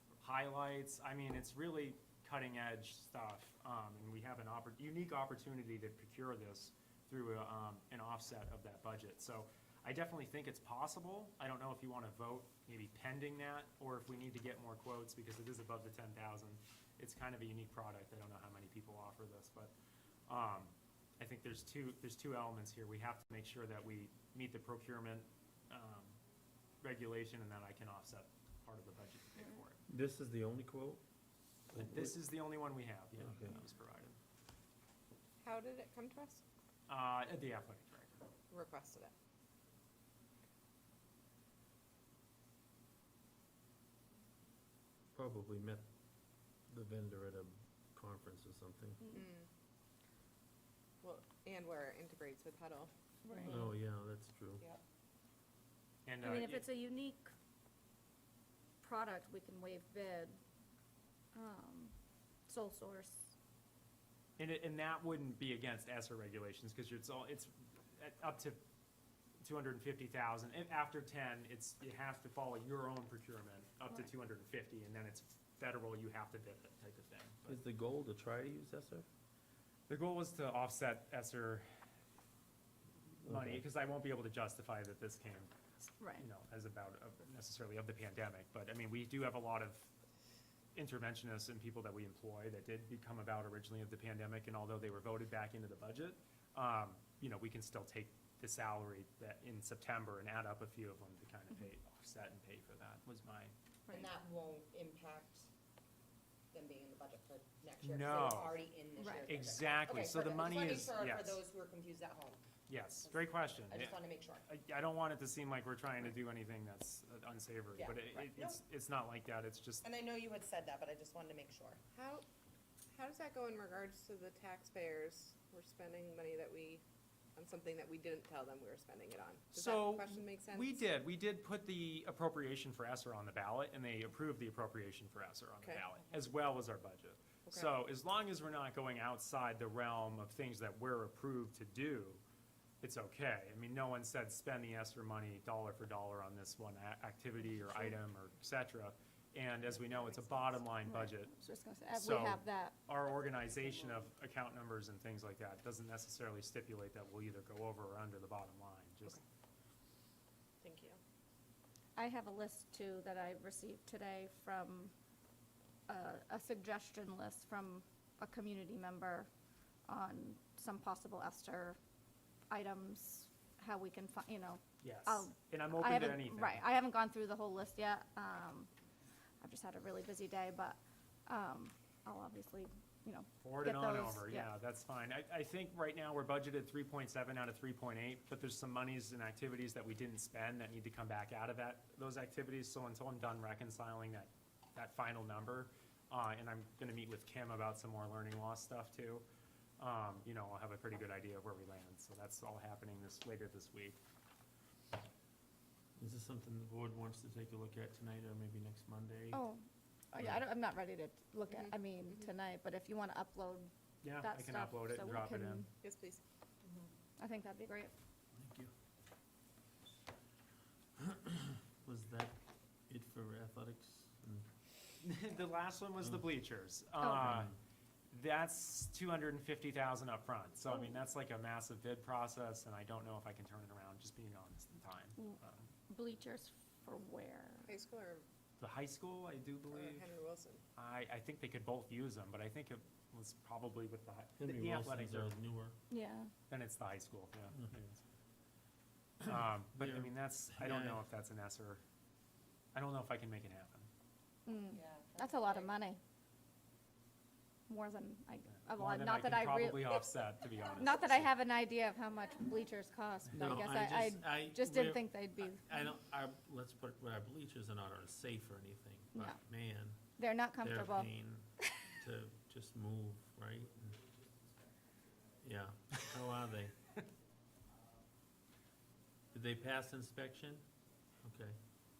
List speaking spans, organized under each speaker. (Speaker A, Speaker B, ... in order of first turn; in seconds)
Speaker A: 0.2-19.7, 20.3-26.2, 26.8-29.8, 31.7-34.2, 36.9-38.2, 56.0-56.6, 64.4-68.6, 69.4-77.6, 79.9-81.7, 83.2-85.5, 86.1-89.9, 90.7-103.5, 107.8-108.6, 109.2-111.4, 112.7-119.8, 129.5-142.2, 142.8-151.3, 151.9-159.2, 174.8-176.6, 183.4-199.2, 199.8-204.0, 214.0-215.7, 225.0-227.5, 228.1-235.7, 238.6-240.1, 240.8-245.3, 246.5-248.0, 249.2-251.8, 252.7-253.9, 258.6-261.3
Speaker B: 29.9-31.0, 31.7-32.1, 33.2-33.5, 45.1-45.9, 46.7-49.0, 53.4-54.6, 77.5-79.1, 83.2-83.6, 206.0-209.4, 218.3-218.7, 221.0-222.4, 222.9-224.5, 227.2-227.5, 244.4-245.8, 249.2-251.0, 263.3-274.0, 275.4-276.7, 279.3-280.6, 281.2-281.6
Speaker C: 35.4-36.4, 38.5-39.1, 49.1-49.5, 51.0-52.9, 121.9-122.2, 122.9-126.8, 127.3-130.9, 137.4-137.8, 160.6-161.0, 211.5-212.3, 215.8-216.2, 237.7-238.2, 239.7-240.6
Speaker D: 53.2-53.7, 56.2-57.3, 58.8-60.4, 61.3-61.9, 62.5-63.3, 86.0-86.2, 109.0-109.2, 150.8-152.7, 161.9-164.9, 165.9-169.3, 169.9-171.8, 172.5-178.7, 179.4-184.5, 209.3-215.7, 217.2-217.9, 235.9-237.7, 245.9-246.3, 254.4-256.0, 257.7-260.0, 260.8-265.6, 269.1-269.4, 270.2-271.1
Speaker E: 103.9-105.5, 106.5-112.4, 113.0-114.5, 117.8-118.6, 119.8-121.8, 254.7-255.7